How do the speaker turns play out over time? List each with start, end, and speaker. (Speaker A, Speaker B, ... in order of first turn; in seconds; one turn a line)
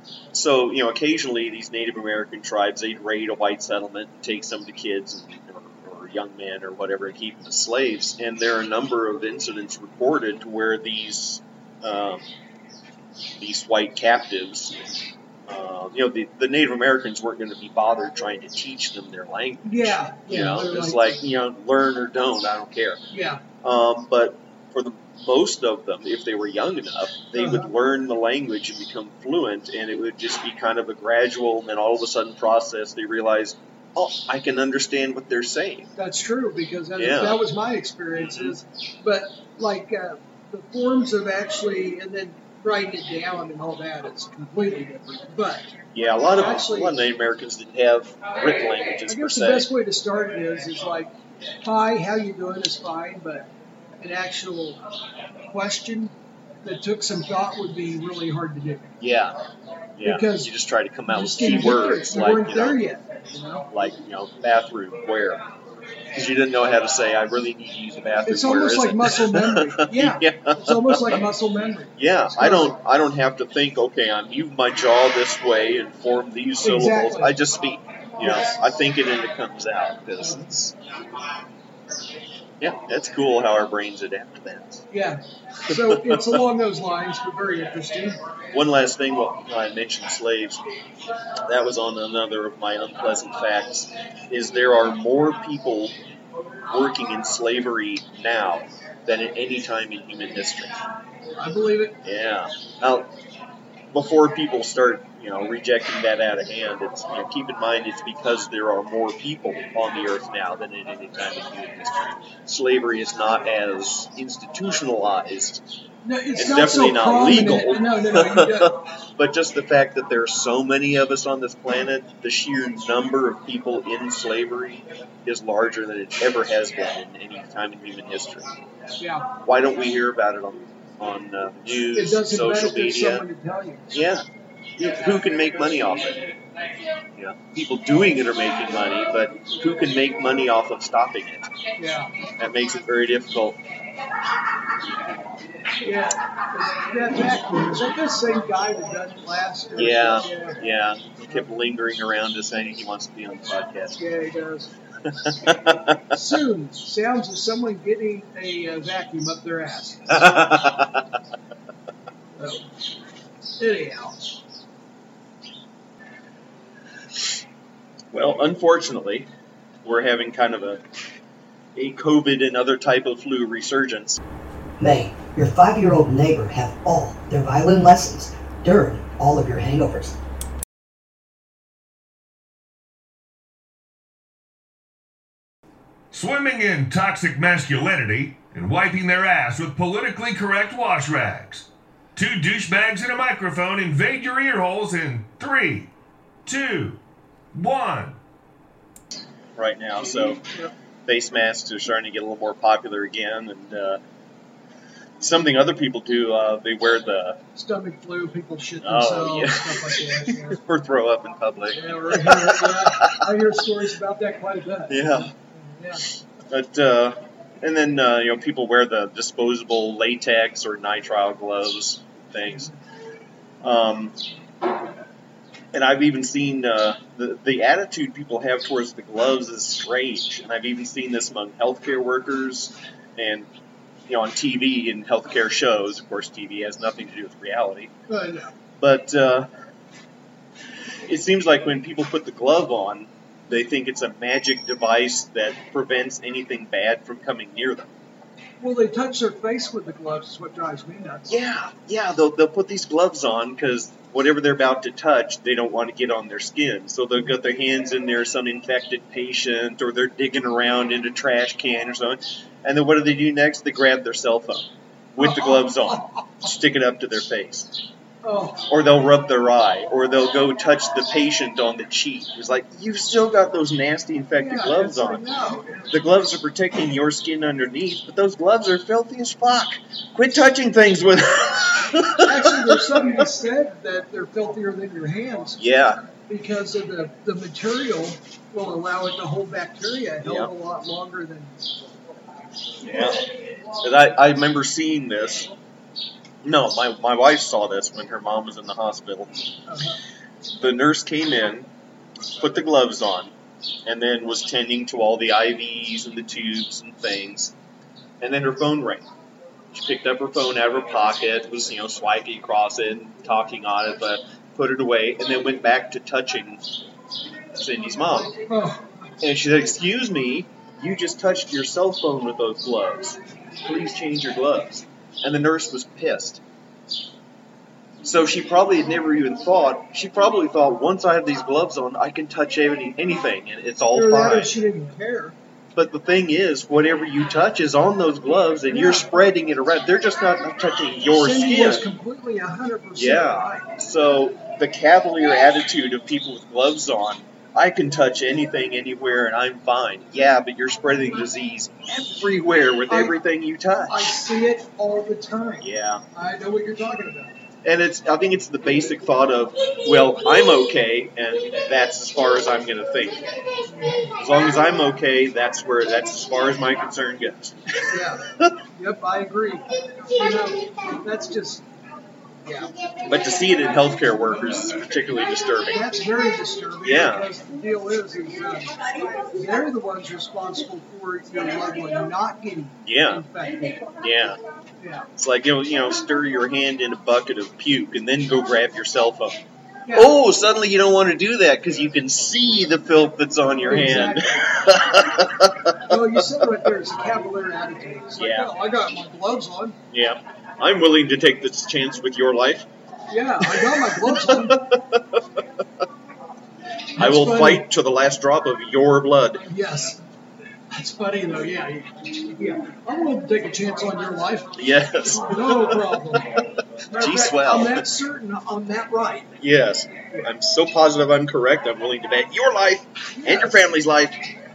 Speaker A: 0.3-12.3
Speaker A: 13.4-14.8
Speaker A: 15.5-23.0
Speaker B: 19.6-21.2
Speaker B: 23.1-23.4
Speaker A: 23.6-35.9
Speaker B: 27.4-27.7
Speaker B: 36.0-45.7
Speaker A: 37.0-37.4
Speaker A: 38.1-38.6
Speaker A: 45.9-49.7
Speaker B: 46.3-47.0
Speaker B: 49.1-51.1
Speaker B: 51.6-54.8
Speaker B: 55.5-58.9
Speaker A: 59.0-59.4
Speaker A: 60.0-62.8
Speaker B: 60.0-60.5
Speaker B: 61.1-63.7
Speaker A: 63.7-65.4
Speaker A: 66.1-71.2
Speaker B: 68.2-72.8
Speaker A: 72.0-80.8
Speaker B: 76.6-77.3
Speaker B: 78.2-78.6
Speaker B: 80.2-80.5
Speaker A: 82.6-84.8
Speaker B: 84.9-88.2
Speaker A: 85.7-86.4
Speaker A: 88.5-90.6
Speaker A: 91.5-96.0
Speaker A: 96.7-100.8
Speaker B: 101.4-102.0
Speaker A: 102.0-103.1
Speaker A: 103.9-115.6
Speaker B: 116.0-118.8
Speaker A: 116.4-128.5
Speaker B: 129.0-129.3
Speaker A: 129.4-133.2
Speaker B: 131.9-134.0
Speaker A: 133.9-134.3
Speaker A: 134.8-136.3
Speaker A: 137.2-141.5
Speaker B: 141.8-142.1
Speaker A: 142.4-143.6
Speaker B: 145.8-150.6
Speaker A: 149.8-154.0
Speaker B: 154.0-154.7
Speaker A: 155.1-156.2
Speaker B: 156.1-160.3
Speaker A: 160.1-161.0
Speaker B: 162.4-162.7
Speaker B: 163.6-164.4
Speaker A: 168.1-169.3
Speaker A: 169.8-170.8
Speaker A: 171.8-174.2
Speaker C: 174.8-180.2
Speaker D: 186.1-195.9
Speaker D: 196.5-197.0
Speaker D: 197.5-198.2
Speaker A: 199.6-200.4
Speaker A: 201.1-204.0
Speaker A: 205.2-207.4
Speaker B: 207.6-210.6
Speaker A: 208.8-213.3
Speaker B: 211.7-216.1
Speaker A: 214.9-215.3
Speaker A: 216.5-222.7
Speaker B: 222.5-222.8
Speaker A: 223.6-224.2
Speaker A: 225.7-233.5
Speaker A: 234.1-237.9
Speaker B: 238.1-238.5
Speaker A: 238.8-239.5
Speaker A: 241.1-247.9
Speaker B: 248.6-251.3
Speaker A: 251.3-267.7
Speaker B: 265.2-266.2
Speaker B: 268.2-268.6
Speaker A: 268.7-275.2
Speaker B: 274.4-276.0
Speaker A: 275.9-282.8
Speaker B: 282.2-285.6
Speaker A: 285.6-286.0
Speaker B: 286.3-291.7
Speaker A: 290.2-290.5
Speaker A: 292.8-293.2
Speaker A: 293.8-295.5
Speaker A: 296.4-299.4
Speaker B: 299.7-300.0
Speaker A: 300.6-301.7
Speaker A: 302.4-303.3
Speaker A: 303.9-307.5
Speaker A: 308.2-309.1
Speaker A: 309.7-316.6
Speaker A: 317.6-318.4
Speaker B: 318.5-318.9
Speaker A: 319.2-326.4
Speaker A: 328.0-334.5
Speaker B: 333.9-335.4
Speaker A: 335.8-341.8
Speaker B: 338.7-339.1
Speaker B: 341.2-343.7
Speaker A: 343.0-354.1
Speaker B: 352.9-353.1
Speaker B: 353.9-357.4
Speaker A: 355.6-356.0
Speaker A: 357.6-363.3
Speaker B: 363.7-364.1
Speaker A: 364.2-368.6
Speaker B: 367.9-371.6
Speaker B: 372.4-372.7
Speaker A: 373.1-375.8
Speaker B: 375.7-383.9
Speaker A: 376.8-377.3
Speaker A: 382.9-383.2
Speaker A: 384.0-384.4
Speaker B: 384.8-385.1
Speaker A: 385.2-389.4
Speaker B: 389.9-390.1
Speaker A: 389.9-396.2
Speaker B: 393.7-394.6
Speaker B: 395.9-399.8
Speaker A: 398.2-398.5
Speaker A: 399.9-402.7
Speaker B: 403.1-404.6
Speaker A: 403.4-405.2
Speaker B: 407.0-407.7
Speaker A: 407.0-409.4
Speaker B: 409.5-410.0
Speaker B: 410.7-414.5
Speaker A: 414.6-417.8
Speaker B: 415.1-419.4
Speaker A: 419.4-424.2
Speaker B: 423.2-423.6